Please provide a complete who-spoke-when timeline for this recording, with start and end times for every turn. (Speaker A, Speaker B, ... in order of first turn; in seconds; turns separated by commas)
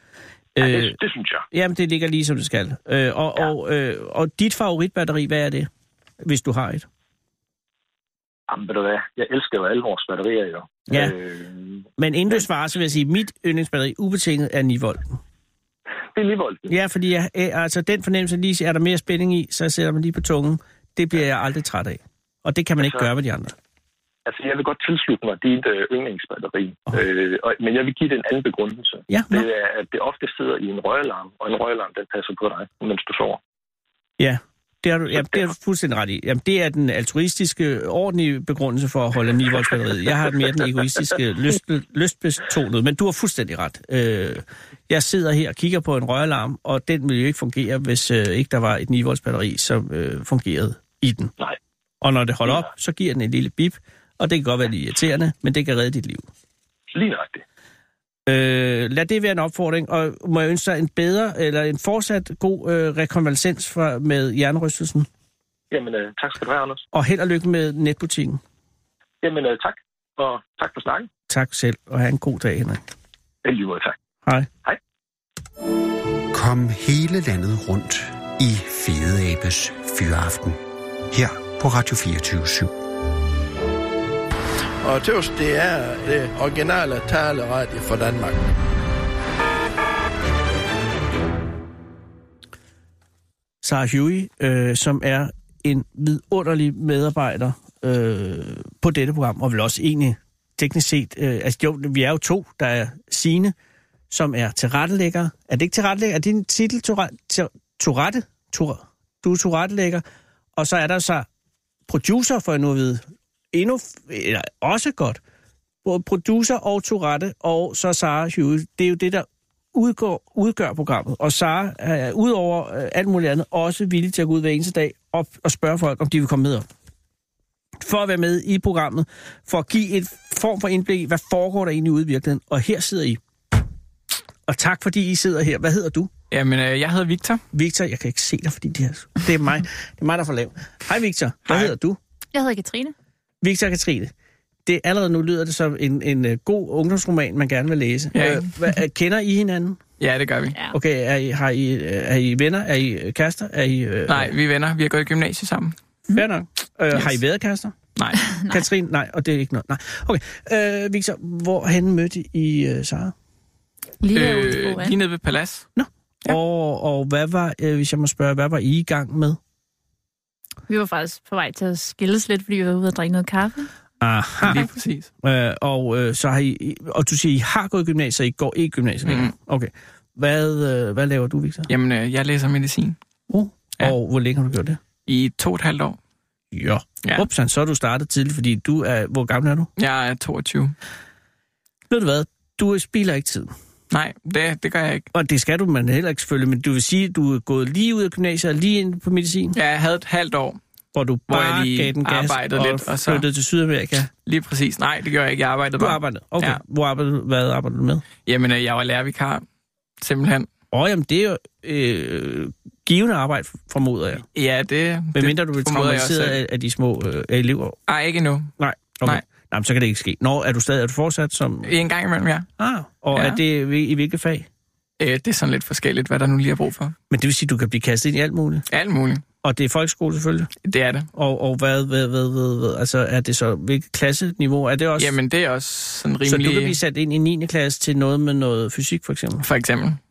Speaker A: 0.5-0.9, Speaker B: 0.6-1.5, Speaker A: 1.5-5.7, Speaker A: 6.2-6.8, Speaker B: 8.5-12.4, Speaker A: 10.9-11.1, Speaker A: 12.0-15.2, Speaker B: 16.1-16.7, Speaker A: 16.7-23.5, Speaker B: 22.8-23.1, Speaker B: 24.2-33.4, Speaker A: 29.1-29.4, Speaker A: 34.2-51.3, Speaker B: 35.2-35.4, Speaker A: 52.0-56.2, Speaker B: 56.9-57.4, Speaker A: 58.3-65.1, Speaker B: 65.7-66.8, Speaker A: 66.9-68.4, Speaker B: 69.2-71.1, Speaker A: 71.3-72.8, Speaker B: 73.4-74.0, Speaker C: 76.3-80.6, Speaker C: 81.1-82.7, Speaker D: 84.8-88.4, Speaker A: 93.6-103.5, Speaker A: 104.1-110.0, Speaker A: 110.5-111.3, Speaker A: 111.9-115.2, Speaker A: 115.8-126.7, Speaker A: 127.8-133.2, Speaker A: 134.5-136.1, Speaker E: 136.3-137.4, Speaker A: 137.5-142.0, Speaker E: 141.4-141.7, Speaker F: 142.3-142.9, Speaker A: 143.4-144.1, Speaker A: 144.7-149.8, Speaker E: 148.1-148.5, Speaker E: 150.0-150.6, Speaker A: 150.7-154.3, Speaker E: 154.1-155.8, Speaker A: 156.1-157.8, Speaker E: 157.9-158.2, Speaker F: 158.2-158.6, Speaker A: 158.5-163.1, Speaker F: 164.0-164.9, Speaker E: 164.1-165.7, Speaker A: 165.8-169.4, Speaker F: 170.7-173.7, Speaker A: 174.0-174.7, Speaker E: 174.4-175.1, Speaker A: 175.2-181.7, Speaker E: 179.1-179.3, Speaker E: 181.7-183.0, Speaker A: 183.3-184.8, Speaker E: 185.1-186.0, Speaker A: 186.5-189.7, Speaker E: 187.0-187.3, Speaker E: 189.8-190.7, Speaker A: 191.9-193.5, Speaker E: 193.9-195.1, Speaker A: 195.1-199.6, Speaker E: 199.5-200.6, Speaker A: 200.9-204.1, Speaker E: 201.3-203.3, Speaker E: 204.2-206.6, Speaker A: 205.8-208.1, Speaker E: 208.2-209.4, Speaker E: 210.0-210.5, Speaker A: 210.7-214.2, Speaker E: 214.3-216.4, Speaker A: 215.1-217.8, Speaker E: 217.9-218.5, Speaker A: 218.6-221.7, Speaker E: 221.6-222.5, Speaker A: 222.6-224.4, Speaker E: 223.1-223.4, Speaker E: 225.0-226.9, Speaker A: 227.1-228.6, Speaker E: 228.7-229.2, Speaker A: 229.4-230.5, Speaker E: 230.6-231.1, Speaker A: 231.1-235.1, Speaker E: 235.0-236.8, Speaker A: 236.2-239.4, Speaker E: 239.4-240.0